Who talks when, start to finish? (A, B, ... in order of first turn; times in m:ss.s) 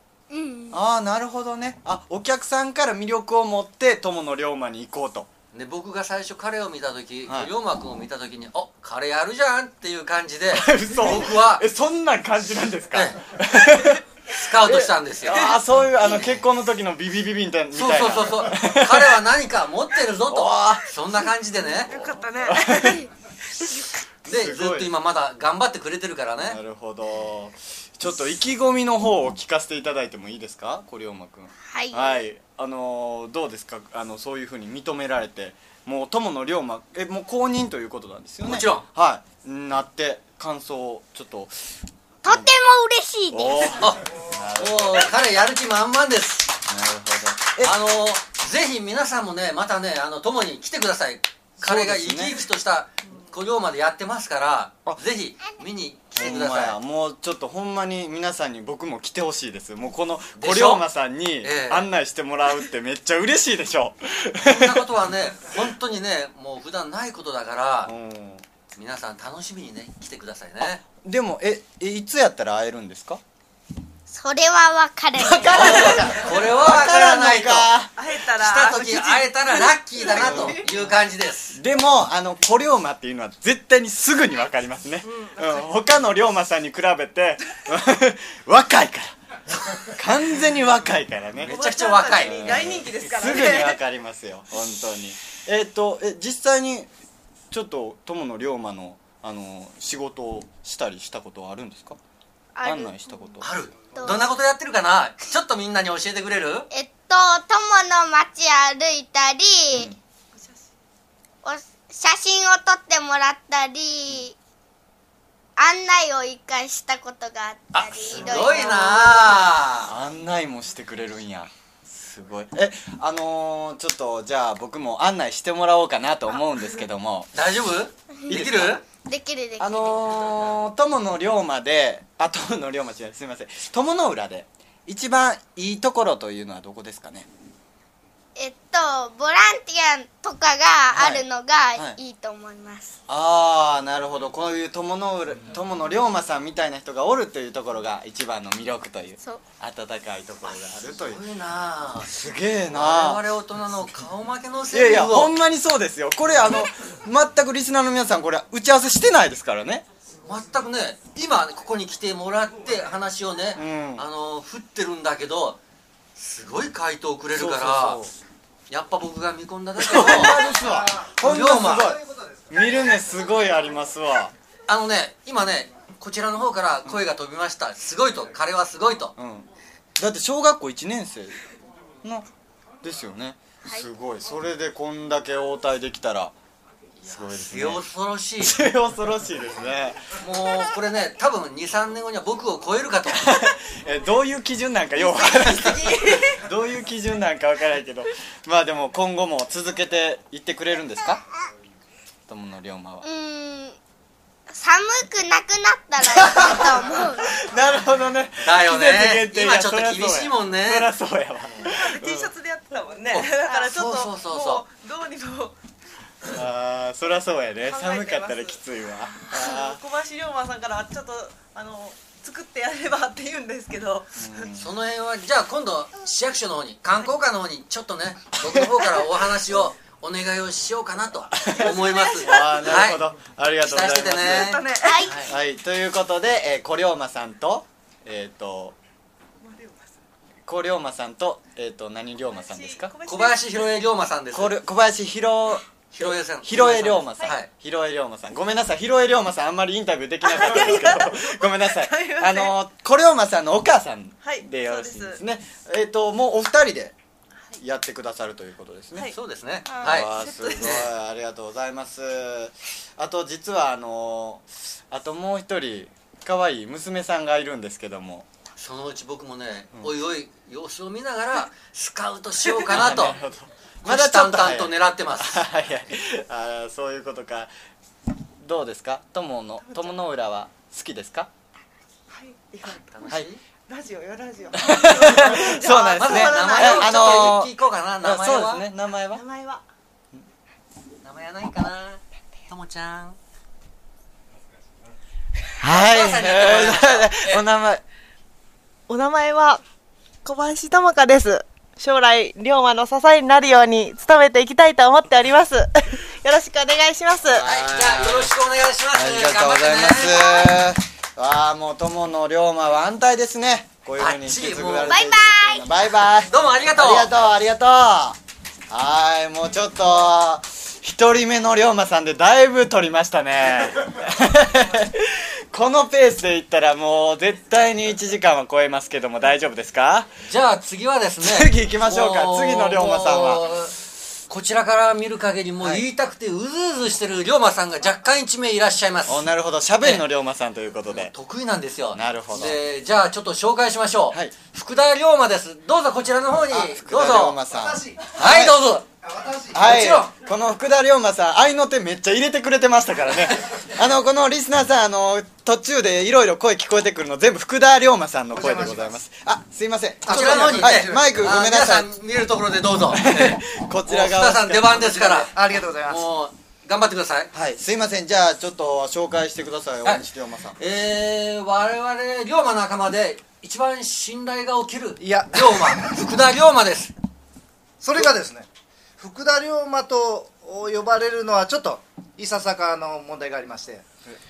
0:00.3-0:00.8 A
0:00.7-0:05.3 B
0:05.5-0:11.6 C
0:07.3-0:07.5 B
0:10.5-0:19.2 B
0:12.9-0:15.6 C
0:17.7-0:21.9 C
0:20.3-0:20.9 B
0:21.8-0:23.1 D
0:22.0-0:23.0 B
0:24.2-0:24.9 B
0:24.3-0:26.6 C
0:26.4-0:41.6 B
0:31.7-0:32.2 A
0:38.4-0:38.8 C
0:42.2-0:43.8 A
0:42.2-0:42.5 B
0:43.3-0:45.1 B
0:43.8-0:44.0 C
0:44.6-0:46.5 C
0:46.7-0:47.8 B
0:47.6-0:56.8 C
0:51.6-0:52.4 B
0:56.2-1:04.9 B
1:00.4-1:00.8 C
1:01.4-1:01.9 C
1:04.4-1:07.9 C
1:07.8-1:08.4 B
1:08.8-1:10.8 C
1:11.0-1:13.2 B
1:14.1-1:16.0 A
1:15.1-1:17.9 B
1:15.5-1:21.6 C
1:18.0-1:20.6 D
1:20.1-1:20.9 B
1:21.5-1:29.1 B
1:25.0-1:25.8 D
1:29.9-1:31.6 B
1:31.4-1:32.8 C
1:31.4-1:33.8 D
1:32.1-1:36.9 B
1:37.5-1:42.0 B
1:42.5-1:43.4 A
1:42.6-1:43.5 B
1:43.4-1:46.7 C
1:43.9-1:44.3 A
1:46.7-1:49.9 A
1:49.7-1:50.0 B
1:50.3-1:50.6 D
1:51.4-1:54.4 A
1:55.6-1:59.2 A
1:57.7-1:59.9 C
1:59.8-2:07.4 B
2:07.4-2:08.8 C
2:08.3-2:08.8 B
2:09.0-2:10.2 A
2:09.6-2:17.3 B
2:18.4-2:23.0 A
2:20.9-2:22.0 B
2:23.1-2:31.2 B
2:30.5-2:32.2 C
2:32.1-2:33.2 B
2:32.7-2:35.3 C
2:34.7-2:39.9 B
2:40.2-2:45.6 C
2:43.5-2:44.0 B
2:46.2-2:48.0 C
2:47.3-2:48.1 B
2:48.7-2:50.6 C
2:49.8-2:54.3 B
2:50.6-2:51.1 E
2:51.2-2:52.0 C
2:51.8-2:52.6 E
2:54.7-2:59.1 C
2:59.2-3:01.4 B
3:02.0-3:02.3 B
3:02.8-3:06.3 B
3:07.0-3:07.8 B
3:07.1-3:08.6 C
3:08.4-3:10.1 B
3:10.2-3:13.4 C
3:13.1-3:21.2 B
3:15.8-3:16.3 D
3:22.3-3:23.0 B
3:23.0-3:23.8 A
3:24.5-3:27.4 A
3:26.0-3:32.3 B
3:28.4-3:30.9 C
3:31.6-3:35.5 D
3:33.1-3:34.6 C
3:36.3-3:39.8 B
3:37.6-3:38.6 D
3:39.2-3:44.5 D
3:44.2-3:44.7 B
3:44.6-3:53.0 C
3:51.4-3:54.6 B
3:51.5-3:52.8 D
3:53.6-3:55.3 C
3:54.3-3:55.1 D
3:54.8-3:55.1 A
3:55.2-3:58.8 B
3:59.4-3:59.9 D
4:00.4-4:02.9 B
4:02.3-4:03.7 D
4:03.0-4:04.6 C
4:04.3-4:17.0 B
4:05.9-4:07.5 C
4:10.2-4:12.6 D
4:14.2-4:15.2 D
4:17.6-4:19.1 B
4:19.1-4:20.9 C
4:19.7-4:20.8 D
4:19.8-4:28.3 B
4:28.6-4:33.2 C
4:32.6-4:37.5 B
4:33.8-4:35.4 C
4:38.4-4:41.3 B
4:39.6-4:39.9 D
4:42.1-4:43.0 D
4:42.9-4:43.4 C
4:43.7-4:47.4 D
4:44.5-4:49.2 B
4:45.2-4:45.4 C
4:45.9-4:48.6 C
4:49.1-4:49.6 D
4:51.0-4:53.2 C
4:55.6-4:57.8 B
4:55.7-4:57.4 C
4:58.9-4:59.6 D
5:00.2-5:07.4 D
5:07.3-5:08.3 B
5:07.4-5:10.4 C
5:08.9-5:18.2 B
5:14.0-5:15.0 C
5:14.8-5:15.7 A
5:16.3-5:17.1 C
5:18.7-5:30.1 B
5:30.2-5:33.8 C
5:31.2-5:33.5 B
5:34.3-5:39.3 C
5:39.0-5:41.1 B
5:40.9-5:47.4 C
5:41.9-5:42.6 B
5:46.5-5:48.6 B
5:47.5-5:48.0 E
5:48.2-5:48.8 C
5:49.0-5:49.7 E
5:49.5-6:01.9 B
5:49.6-5:50.1 C
5:58.3-5:59.0 E
6:00.0-6:01.2 E
6:00.1-6:05.3 C
6:02.9-6:05.3 B
6:05.3-6:06.0 E
6:05.9-6:07.3 C
6:07.3-6:10.6 B
6:10.6-6:16.9 C
6:15.0-6:15.9 E
6:17.8-6:18.5 E
6:19.0-6:23.8 E